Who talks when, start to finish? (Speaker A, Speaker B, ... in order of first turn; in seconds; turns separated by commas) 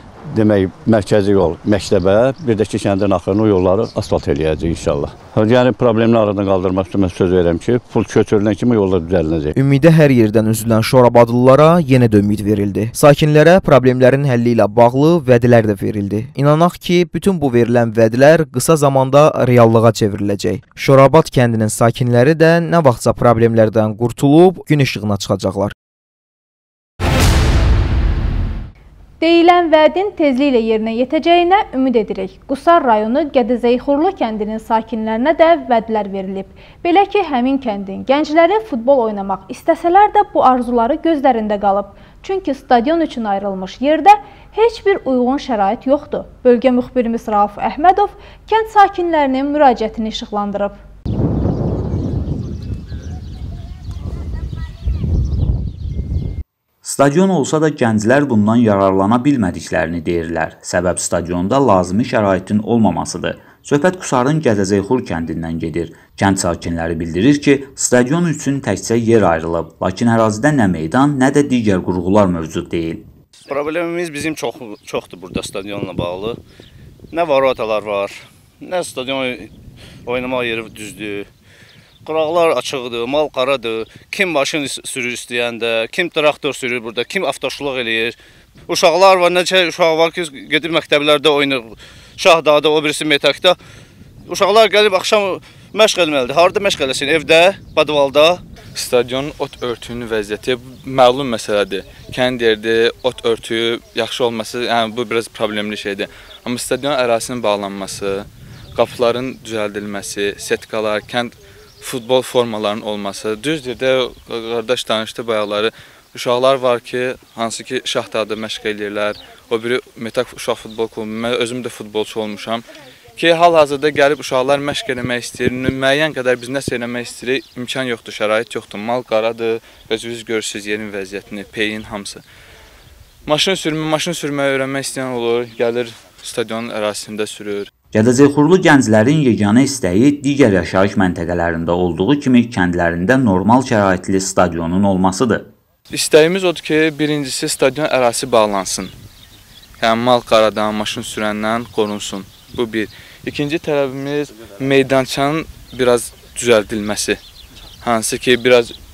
Speaker A: 0.3-9.5, Speaker B: 9.5-25.7, Speaker C: 29.2-50.8, Speaker D: 56.8-73.0, Speaker E: 73.5-76.4, Speaker E: 77.1-79.5, Speaker E: 80.0-81.3, Speaker E: 82.0-88.2, Speaker E: 88.7-93.5, Speaker E: 94.3-98.4, Speaker F: 98.8-122.6, Speaker F: 123.2-132.2, Speaker F: 133.3-137.7, Speaker D: 137.9-145.5, Speaker F: 145.9-148.9, Speaker F: 149.8-157.2, Speaker F: 157.8-158.7